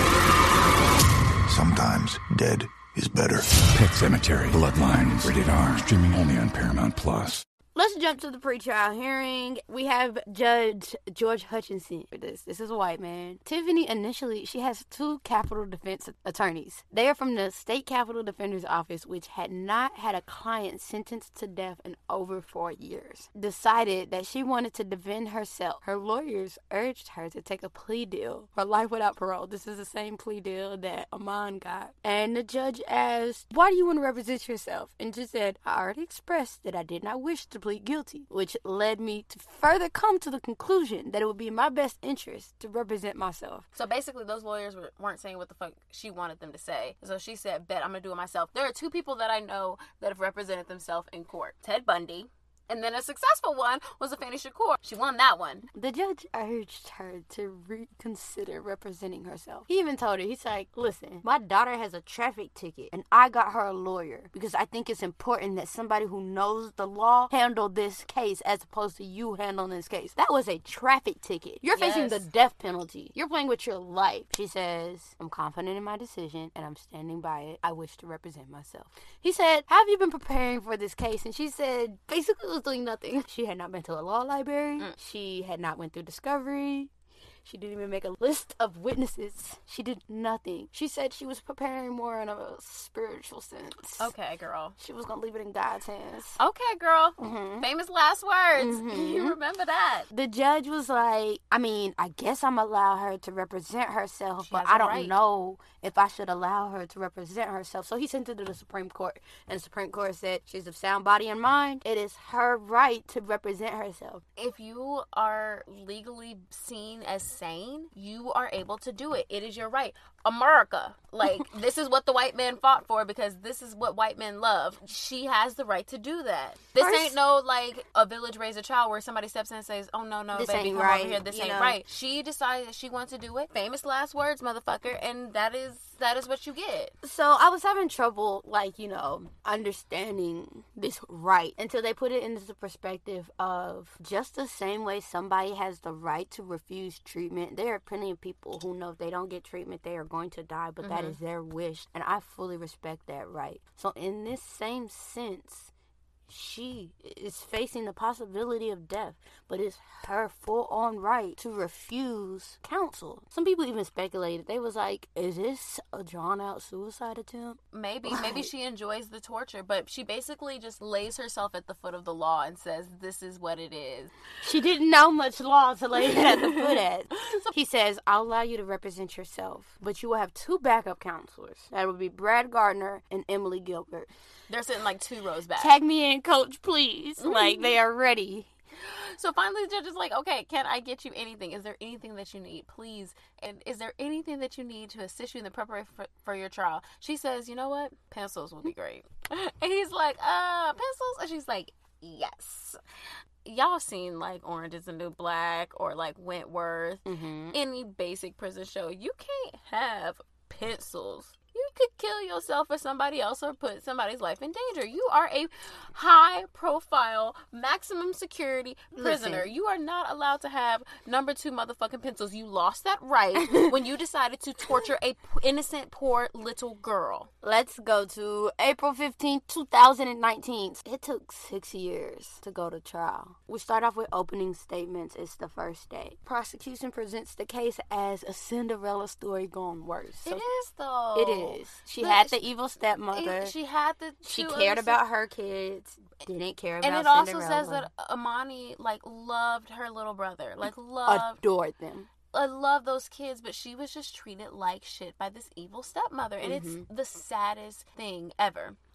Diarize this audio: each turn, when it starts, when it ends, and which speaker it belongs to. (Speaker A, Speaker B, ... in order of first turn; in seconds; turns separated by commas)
Speaker A: 1.5-3.5, Speaker B: 3.7-7.4, Speaker C: 7.7-43.6, Speaker D: 43.7-55.7, Speaker C: 55.7-86.9, Speaker D: 71.7-72.2, Speaker C: 87.4-94.1, Speaker D: 94.0-94.8, Speaker C: 94.8-96.4, Speaker D: 96.4-100.1, Speaker C: 97.2-97.7, Speaker C: 98.5-99.4, Speaker C: 100.1-114.2, Speaker D: 104.4-105.2, Speaker D: 114.4-136.9, Speaker C: 126.8-127.2, Speaker C: 130.3-131.8, Speaker C: 137.0-155.7, Speaker D: 150.8-151.2, Speaker C: 156.3-168.5, Speaker D: 167.7-174.1, Speaker C: 174.4-184.1, Speaker D: 176.1-177.5, Speaker D: 184.5-185.7, Speaker C: 185.6-188.5, Speaker D: 187.2-187.7, Speaker D: 188.8-202.8, Speaker D: 203.4-227.3, Speaker C: 207.1-207.6, Speaker C: 218.9-219.5, Speaker C: 227.4-240.4, Speaker D: 240.2-242.4, Speaker C: 241.1-243.5, Speaker D: 243.1-245.0, Speaker C: 244.2-247.9, Speaker D: 246.8-251.4, Speaker C: 251.0-252.1, Speaker D: 252.3-258.8, Speaker C: 256.4-256.9